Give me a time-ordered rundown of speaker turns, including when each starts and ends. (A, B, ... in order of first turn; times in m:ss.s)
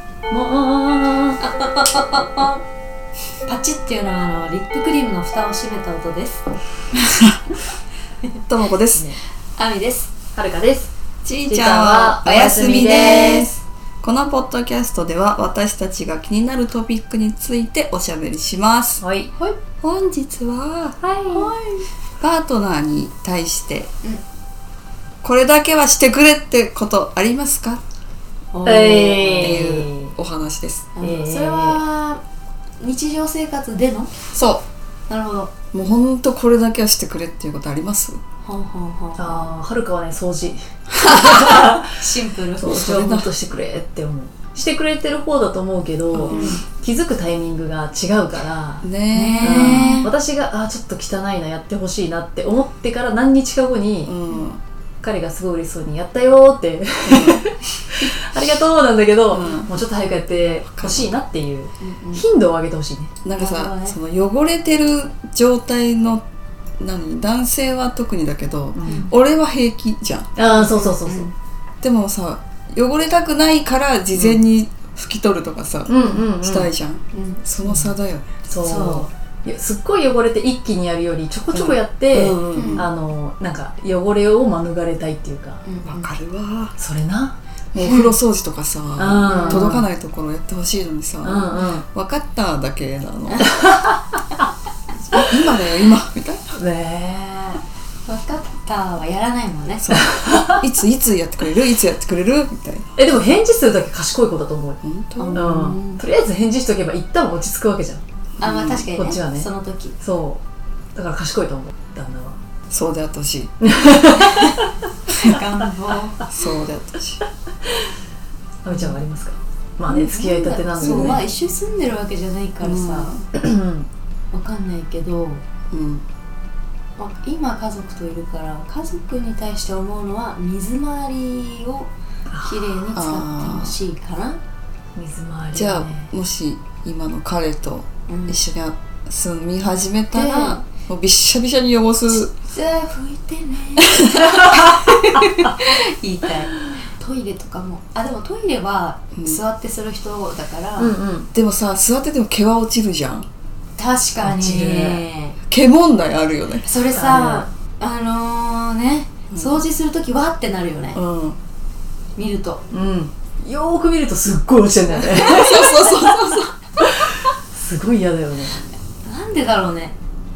0:00.3-0:01.4 A
0:01.4-0:02.6 B
0:03.5-0:06.5 B
0:06.9-0:07.4 C
0:08.4-0:09.1 C
0:08.9-0:09.2 A
0:09.6-0:10.1 B
0:10.3-0:10.9 A
0:11.2-0:19.0 C
0:11.5-0:13.5 A
0:11.5-0:13.5 B
0:19.0-0:19.3 A
0:19.4-0:19.6 B
0:19.8-0:21.0 C
0:21.0-0:21.5 A
0:21.3-0:21.9 B
0:22.2-0:23.9 C
0:25.2-0:27.8 C
0:28.5-0:29.6 B
0:28.6-0:30.1 A
0:29.4-0:30.9 C
0:31.0-0:32.2 B
0:31.0-0:31.8 A
0:32.8-0:34.1 B
0:34.3-0:34.6 C
0:35.1-0:35.6 B
0:35.7-0:38.2 C
0:38.4-0:39.4 B
0:39.2-0:42.0 A
0:41.8-0:42.8 B
0:42.6-0:48.8 A
0:42.6-0:43.3 C
0:46.1-0:46.6 C
0:46.3-0:46.6 B
0:48.8-0:50.1 C
0:49.1-0:50.1 B
0:49.4-0:54.1 A
0:54.0-0:54.6 C
0:55.0-1:03.2 A
0:57.0-0:57.6 C
0:59.3-0:59.7 C
1:00.7-1:01.1 C
1:01.8-1:02.2 B
1:03.2-1:06.2 C
1:03.4-1:04.0 B
1:06.8-1:10.3 C
1:08.8-1:09.1 A
1:08.8-1:09.1 B
1:10.4-1:11.3 A
1:10.4-1:11.3 B
1:11.8-1:18.5 C
1:15.9-1:16.7 A
1:16.0-1:16.3 B
1:17.1-1:17.4 B
1:18.5-1:25.6 A
1:18.6-1:19.1 B
1:21.5-1:22.8 C
1:22.5-1:22.9 B
1:25.6-1:26.1 B
1:25.8-1:26.8 C
1:26.8-1:27.4 A
1:27.7-1:33.5 C
1:27.8-1:28.1 B
1:29.0-1:29.9 A
1:29.3-1:29.7 B
1:31.2-1:31.8 A
1:33.6-1:34.0 A
1:35.1-1:36.6 C
1:36.6-1:37.6 A
1:38.1-1:40.0 B
1:39.8-1:43.0 C
1:40.0-1:40.6 A
1:43.0-1:44.8 A
1:44.8-1:45.4 C
1:45.2-1:46.0 B
1:45.3-1:48.0 A
1:48.4-1:48.8 C
1:48.4-1:50.0 B
1:48.8-1:49.5 A
1:50.0-1:50.4 A
1:51.0-1:52.4 A
1:52.7-1:53.5 C
1:53.6-1:54.6 A
1:54.2-1:56.3 B
1:56.2-1:57.2 C
1:58.6-2:01.2 A
1:58.7-1:59.0 B
1:59.9-2:03.2 B
2:00.8-2:01.2 C
2:02.6-2:03.2 C
2:03.3-2:03.9 A
2:04.3-2:05.4 B
2:05.7-2:06.0 C
2:07.0-2:11.9 B
2:12.3-2:12.9 A
2:12.4-2:14.4 B
2:12.9-2:13.7 C
2:14.9-2:16.1 A
2:15.5-2:22.3 C
2:18.1-2:18.4 B
2:20.1-2:20.6 B
2:22.1-2:31.0 B
2:29.2-2:29.4 C
2:30.8-2:31.3 A
2:31.3-2:33.3 C
2:33.8-2:35.4 B
2:34.2-2:35.0 A
2:35.5-2:36.7 C
2:36.6-2:41.0 B
2:36.9-2:37.4 A
2:39.3-2:39.6 C
2:40.9-2:41.4 C
2:42.2-2:42.7 B
2:42.7-2:45.9 A
2:45.1-2:46.5 C
2:45.8-2:46.8 B
2:47.5-2:48.7 A
2:49.0-2:49.9 B